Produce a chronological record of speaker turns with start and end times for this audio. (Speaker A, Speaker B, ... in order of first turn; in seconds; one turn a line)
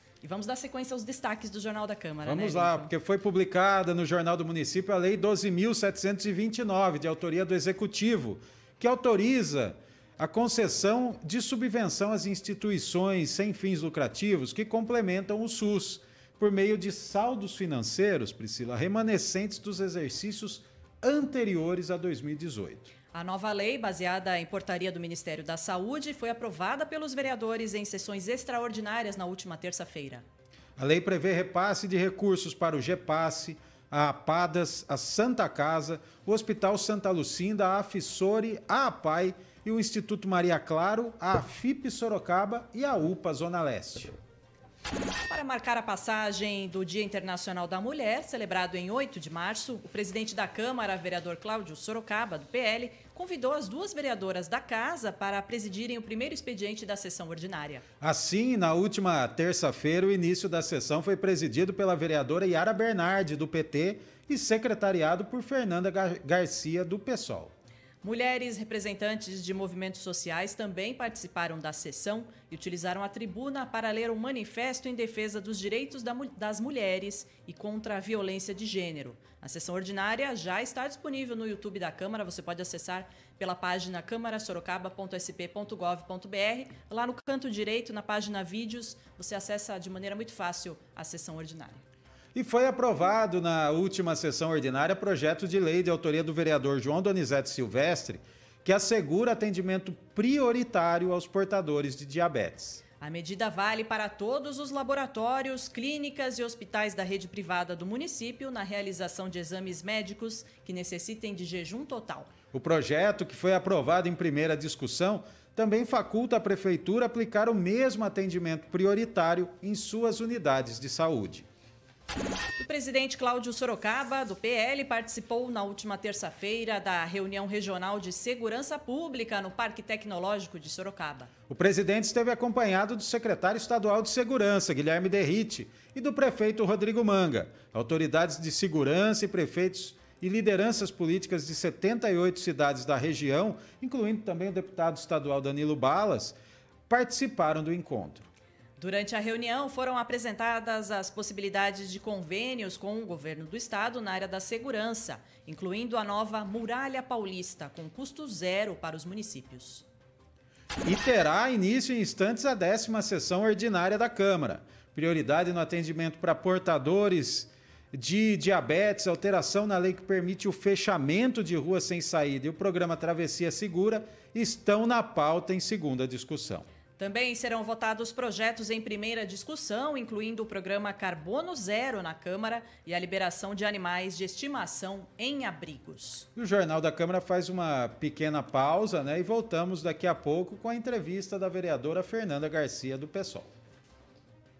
Speaker A: 0.2-2.9
Speaker B: 2.2-22.9
Speaker A: 23.1-30.2
Speaker B: 30.8-44.1
Speaker A: 45.3-57.8
Speaker B: 58.0-67.5
Speaker A: 68.0-91.8
Speaker B: 92.3-102.8
Speaker A: 103.0-112.3
Speaker B: 112.5-121.5
Speaker A: 122.6-131.3
Speaker B: 131.5-146.3
Speaker B: 146.9-148.3
Speaker A: 148.8-159.8
Speaker B: 160.8-176.7
Speaker A: 177.0-186.3
Speaker B: 186.3-193.5